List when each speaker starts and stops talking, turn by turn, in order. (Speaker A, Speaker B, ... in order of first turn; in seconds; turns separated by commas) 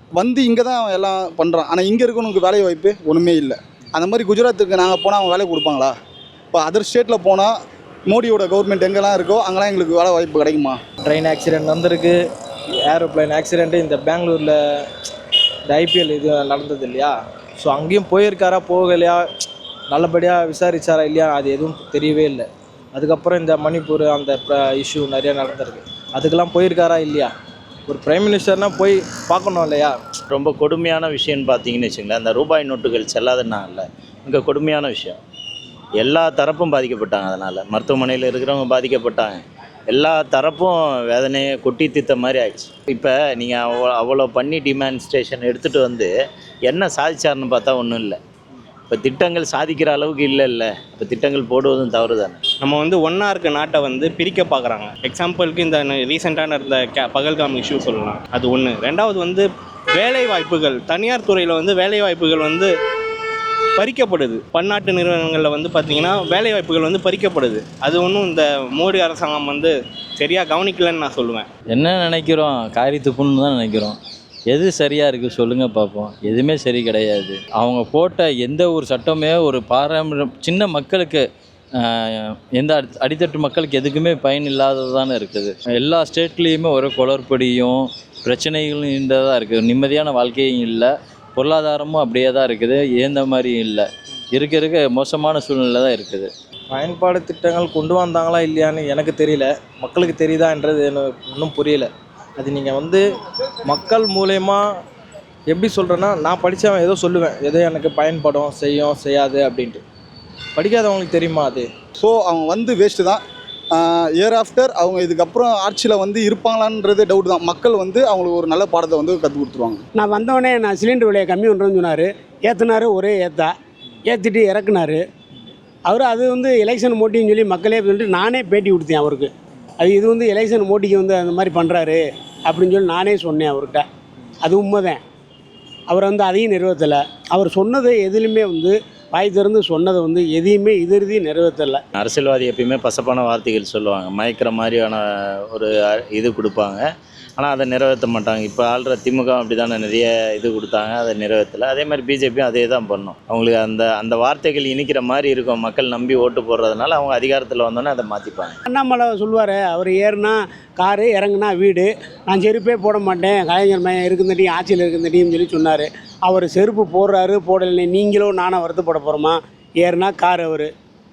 Speaker A: 0.2-5.9, Speaker A: 6.5-7.5, Speaker A: 8.1-10.8, Speaker B: 11.0-12.2, Speaker B: 12.8-14.8, Speaker B: 15.7-19.2, Speaker B: 19.9-27.3, Speaker B: 27.9-30.0, Speaker C: 30.3-35.2, Speaker C: 36.0-46.1, Speaker C: 46.7-48.2, Speaker C: 48.9-52.4, Speaker D: 52.6-62.7, Speaker D: 63.8-71.5, Speaker E: 71.7-74.0, Speaker E: 74.5-96.3, Speaker B: 96.7-103.0, Speaker B: 103.7-104.7, Speaker B: 105.5-109.8, Speaker B: 110.5-111.7, Speaker A: 112.0-113.2, Speaker A: 113.7-119.8, Speaker F: 120.0-123.5, Speaker F: 124.1-125.0, Speaker F: 125.9-133.8, Speaker F: 134.4-135.0, Speaker F: 135.9-141.8, Speaker C: 142.0-146.8, Speaker C: 147.4-158.5, Speaker F: 158.7-170.7